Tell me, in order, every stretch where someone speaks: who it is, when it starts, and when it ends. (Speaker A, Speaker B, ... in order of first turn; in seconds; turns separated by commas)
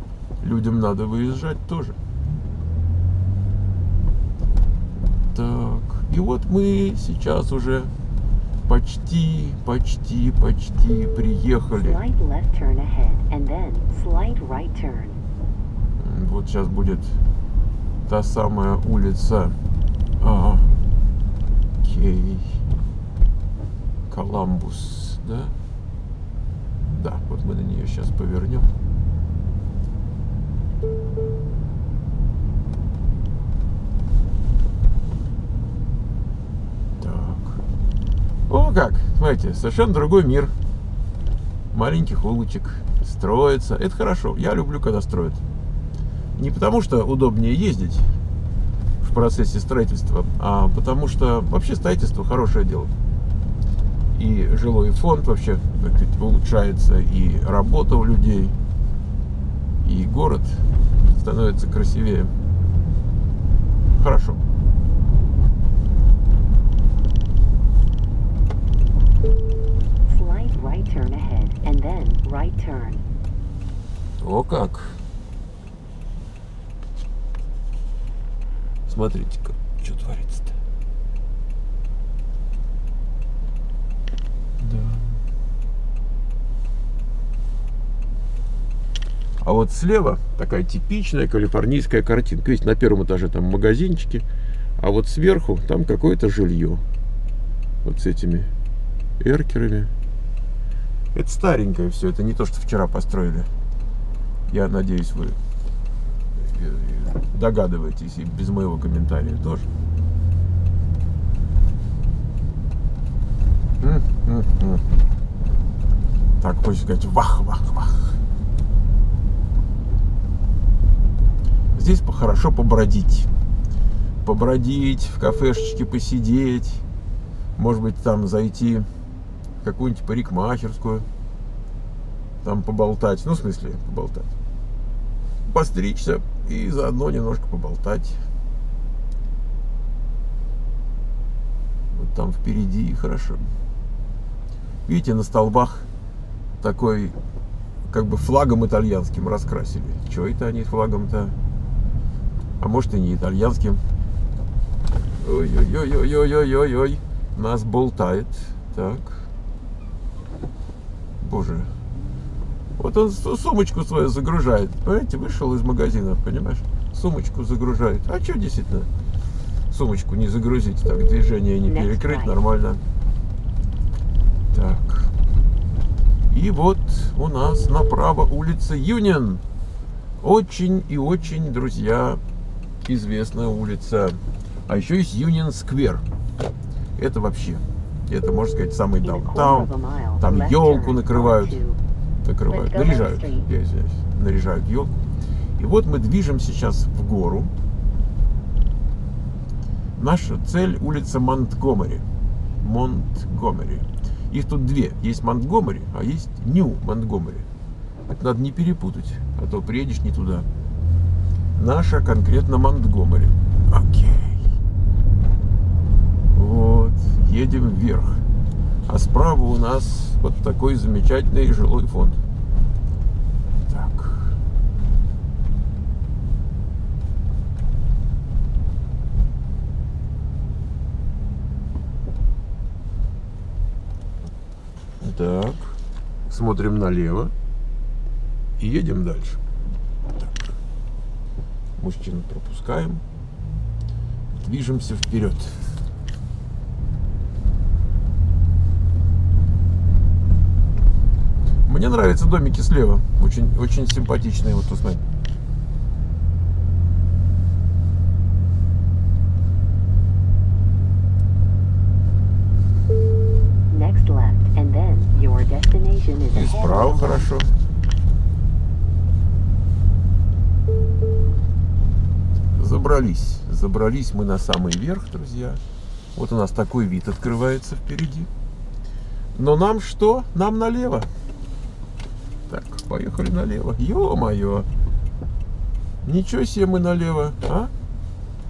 Speaker A: 0.4-2.0, Speaker A: 5.2-7.9, Speaker A: 8.7-12.0, Speaker B: 11.7-15.2, Speaker A: 16.0-17.2, Speaker A: 18.1-19.6, Speaker A: 20.2-20.7, Speaker A: 21.8-22.6, Speaker A: 24.1-25.5, Speaker A: 26.9-28.7, Speaker A: 37.0-37.6, Speaker A: 38.5-40.5, Speaker A: 41.7-45.4, Speaker A: 46.4-48.1, Speaker A: 49.0-52.9, Speaker A: 54.1-58.5, Speaker A: 59.8-62.3, Speaker A: 63.9-64.4, Speaker B: 70.0-73.0, Speaker A: 74.2-75.0, Speaker A: 78.8-80.5, Speaker A: 84.6-85.2, Speaker A: 89.4-94.2, Speaker A: 94.8-96.8, Speaker A: 97.8-98.5, Speaker A: 99.2-99.9, Speaker A: 101.1-103.5, Speaker A: 104.5-105.3, Speaker A: 106.4-109.7, Speaker A: 113.8-114.8, Speaker A: 116.4-118.2, Speaker A: 121.7-123.3, Speaker A: 124.2-126.8, Speaker A: 127.6-128.9, Speaker A: 129.6-131.1, Speaker A: 132.4-134.3, Speaker A: 135.4-138.2, Speaker A: 141.9-143.5, Speaker A: 144.8-145.9, Speaker A: 146.6-147.2, Speaker A: 147.9-151.4, Speaker A: 152.6-153.8, Speaker A: 155.2-159.3, Speaker A: 161.2-161.7, Speaker A: 162.8-168.9, Speaker A: 169.7-172.8, Speaker B: 171.6-172.4, Speaker A: 174.5-175.1, Speaker A: 176.3-179.4, Speaker A: 180.2-182.2, Speaker A: 182.8-186.0, Speaker A: 187.0-191.6, Speaker B: 189.0-191.8, Speaker A: 192.2-195.0, Speaker B: 192.5-193.4, Speaker A: 195.6-197.5, Speaker A: 200.0-202.0, Speaker A: 202.6-207.5, Speaker A: 208.1-210.4, Speaker A: 211.6-214.5, Speaker A: 216.3-218.2, Speaker A: 218.9-222.2, Speaker A: 223.7-224.3, Speaker A: 235.0-235.8, Speaker A: 236.3-237.3, Speaker A: 238.6-239.4, Speaker A: 240.2-240.5, Speaker A: 241.8-243.0, Speaker A: 244.3-245.7, Speaker A: 251.7-255.0, Speaker B: 263.7-267.3, Speaker A: 266.3-267.5, Speaker A: 272.5-275.6, Speaker A: 276.1-278.3, Speaker A: 279.3-281.1, Speaker A: 282.5-284.7, Speaker A: 286.0-287.7